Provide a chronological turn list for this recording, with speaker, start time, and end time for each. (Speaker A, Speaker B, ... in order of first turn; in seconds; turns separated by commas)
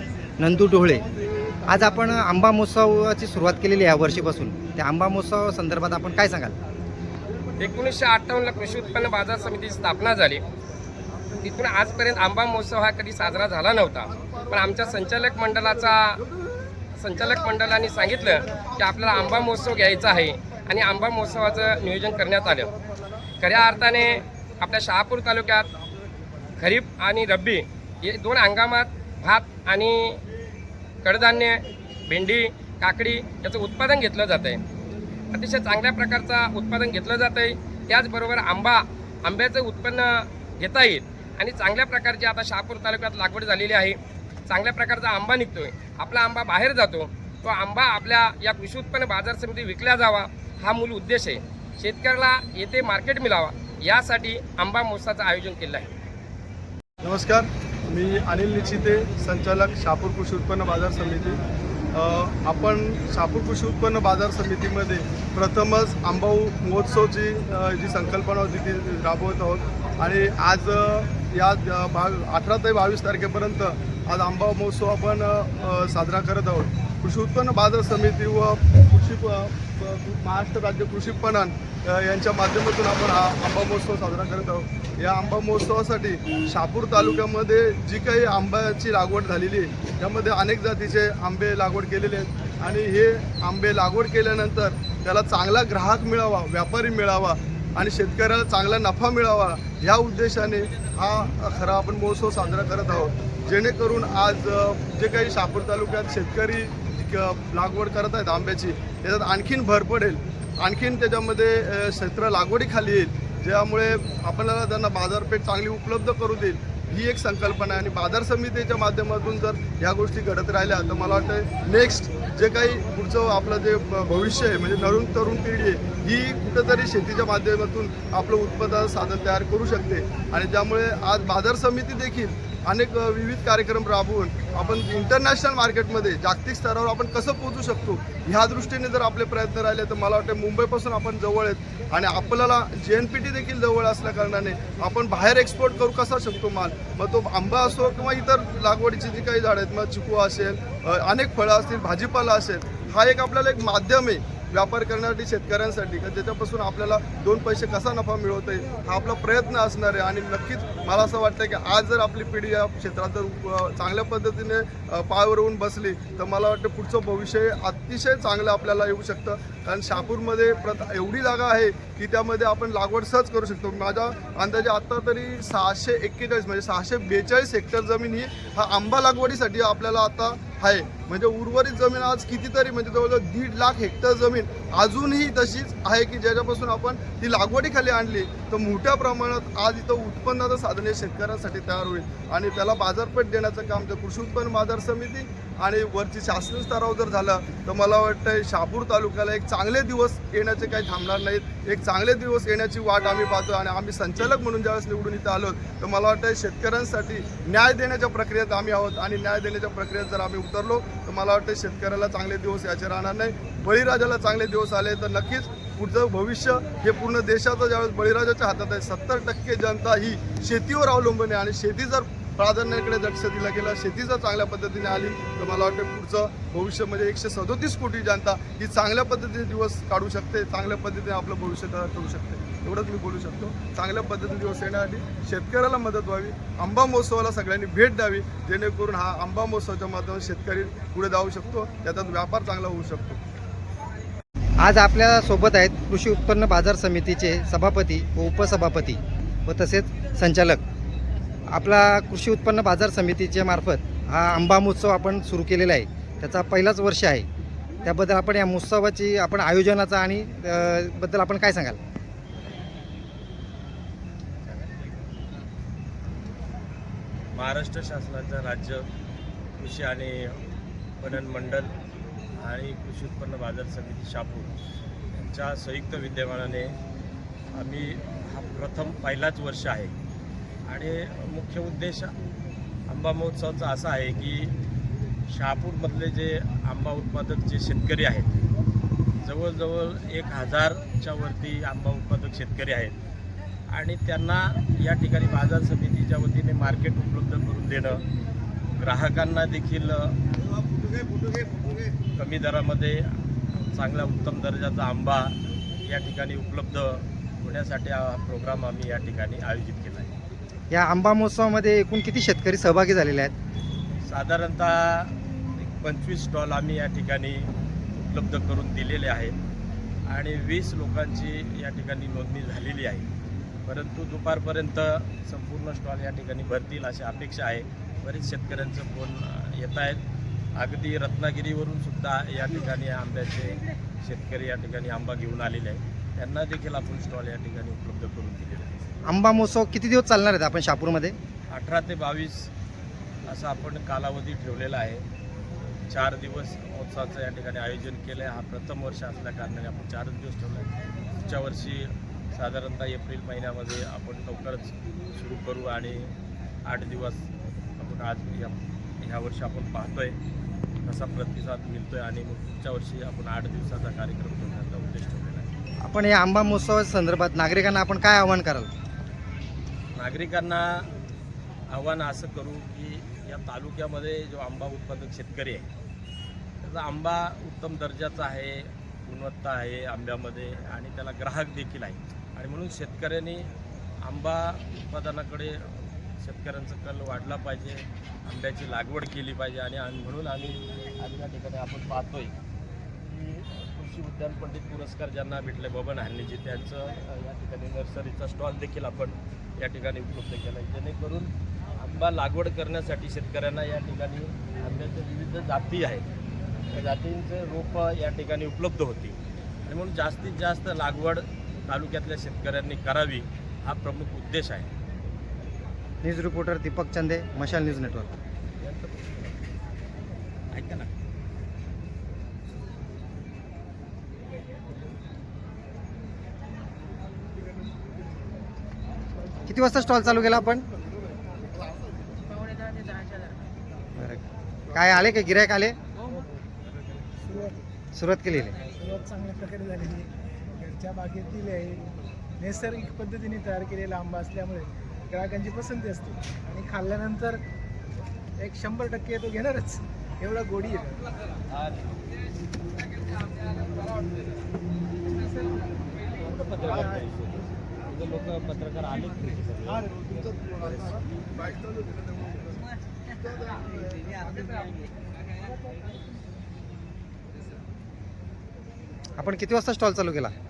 Speaker A: 0.4-1.1, Speaker A: 1.7-6.6, Speaker B: 7.6-10.4, Speaker B: 11.4-16.2, Speaker B: 16.9-22.7, Speaker B: 23.4-25.7, Speaker B: 26.6-30.2, Speaker B: 31.0-34.6, Speaker B: 35.3-55.9, Speaker C: 57.0-61.4, Speaker C: 61.9-243.2, Speaker A: 244.6-250.6, Speaker A: 251.5-257.3, Speaker A: 257.8-261.8, Speaker D: 267.3-268.9, Speaker D: 269.6-270.4, Speaker D: 271.0-271.7, Speaker D: 272.4-274.5, Speaker D: 275.1-276.8, Speaker D: 277.5-279.9, Speaker D: 280.7-282.1, Speaker D: 282.9-284.6, Speaker D: 285.3-288.4, Speaker D: 289.2-293.0, Speaker D: 293.7-298.0, Speaker D: 298.7-300.2, Speaker D: 302.1-303.1, Speaker D: 303.7-310.1, Speaker A: 310.7-313.3, Speaker D: 314.0-319.4, Speaker D: 320.1-323.1, Speaker D: 323.6-330.0, Speaker D: 330.6-338.9, Speaker A: 339.1-341.2, Speaker D: 341.5-342.5, Speaker D: 343.3-345.0, Speaker D: 345.9-356.1, Speaker D: 356.6-360.2, Speaker D: 360.9-365.5, Speaker A: 365.8-368.7, Speaker D: 369.9-370.9, Speaker D: 371.7-375.7, Speaker D: 376.6-383.5, Speaker D: 384.0-392.4, Speaker D: 393.0-406.1, Speaker D: 406.7-414.7, Speaker A: 416.0-418.1, Speaker D: 418.6-419.3, Speaker D: 420.5-420.9, Speaker A: 429.5-430.7, Speaker A: 434.0-435.8, Speaker E: 437.2-437.6, Speaker A: 437.9-438.6, Speaker E: 438.6-447.4, Speaker E: 448.4-451.0, Speaker D: 451.5-452.0, Speaker D: 456.2-459.9, Speaker A: 469.2-470.3